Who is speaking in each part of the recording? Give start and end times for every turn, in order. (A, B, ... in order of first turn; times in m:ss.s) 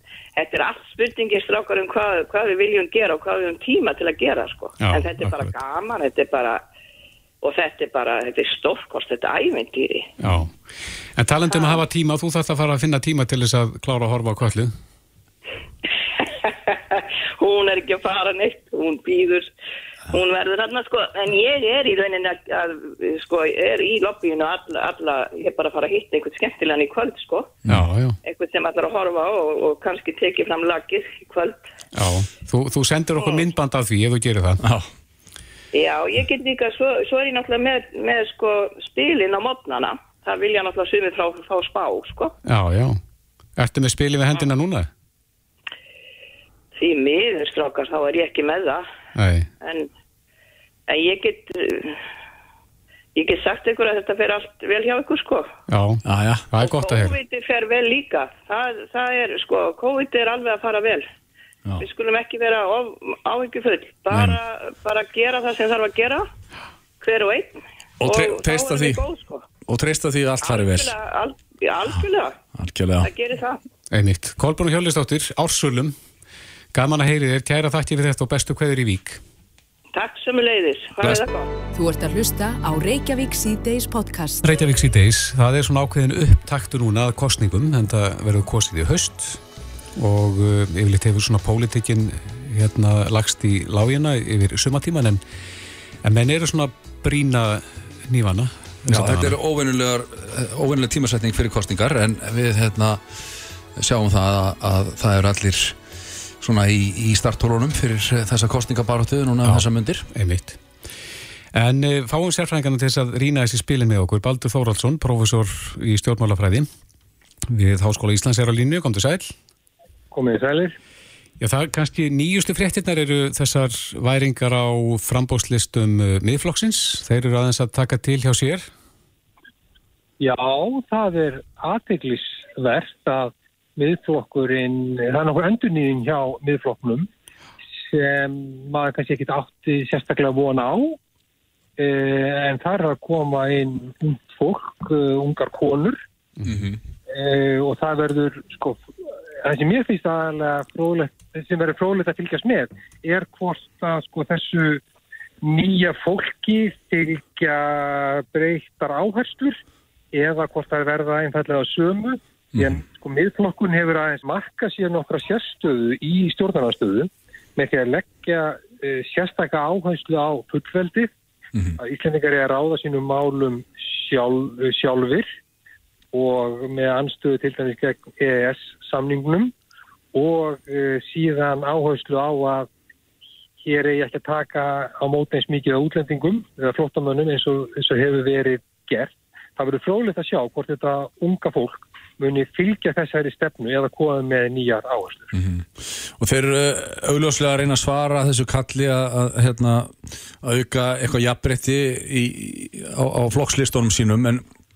0:00.4-0:06.6 A
0:04.8-0:05.5 B
0:07.4-0:10.1 A
0:10.2-0:10.6 B
0:11.2-0:14.7 B
0:11.5-0:11.8 A
0:16.2-0:19.5 A
0:20.1-0:27.6 A
0:27.7-0:28.2 B
0:28.2-0:31.6 A
0:32.0-0:34.6 B
0:34.6-0:34.9 C
0:35.7-0:42.4 A
0:42.4-0:43.0 B
0:43.6-0:44.9 B
0:46.8-0:48.8 A
0:49.2-0:49.5 B
0:49.6-0:49.9 A
0:50.9-0:52.0 A
0:53.2-0:55.5 A
0:55.7-0:56.0 B
0:56.0-0:56.5 C
0:56.5-0:57.2 B
0:56.6-1:01.0 A
1:01.8-1:06.3 A
1:04.1-1:04.4 C
1:07.0-1:09.5 A
1:08.0-1:09.0 C
1:09.7-1:10.9 C
1:10.4-1:12.4 A
1:12.6-1:13.1 C
1:13.0-1:13.6 A
1:13.9-1:15.9 B
1:16.7-1:19.2 B
1:19.9-1:21.5 A
1:21.7-1:24.4 D
1:24.4-1:29.4 B
1:30.0-1:35.2 B
1:36.0-1:39.4 B
1:38.9-1:43.0 C
1:43.8-1:45.8 C
1:46.4-1:50.1 C
1:49.4-1:50.6 B
1:51.5-1:56.7 B
1:57.5-1:59.3 B
2:00.1-2:00.8 E
2:01.4-2:08.7 B
2:10.2-2:17.1 E
2:17.8-2:21.0 E
2:21.8-2:26.0 E
2:26.5-2:26.8 C
2:27.1-2:28.8 E
2:29.4-2:34.8 E
2:35.4-2:39.6 E
2:40.1-2:51.1 E
2:42.6-2:42.8 C
2:51.8-2:55.3 E
2:56.1-2:59.5 E
3:00.1-3:02.7 E
3:03.6-3:15.3 E
3:15.3-3:24.4 C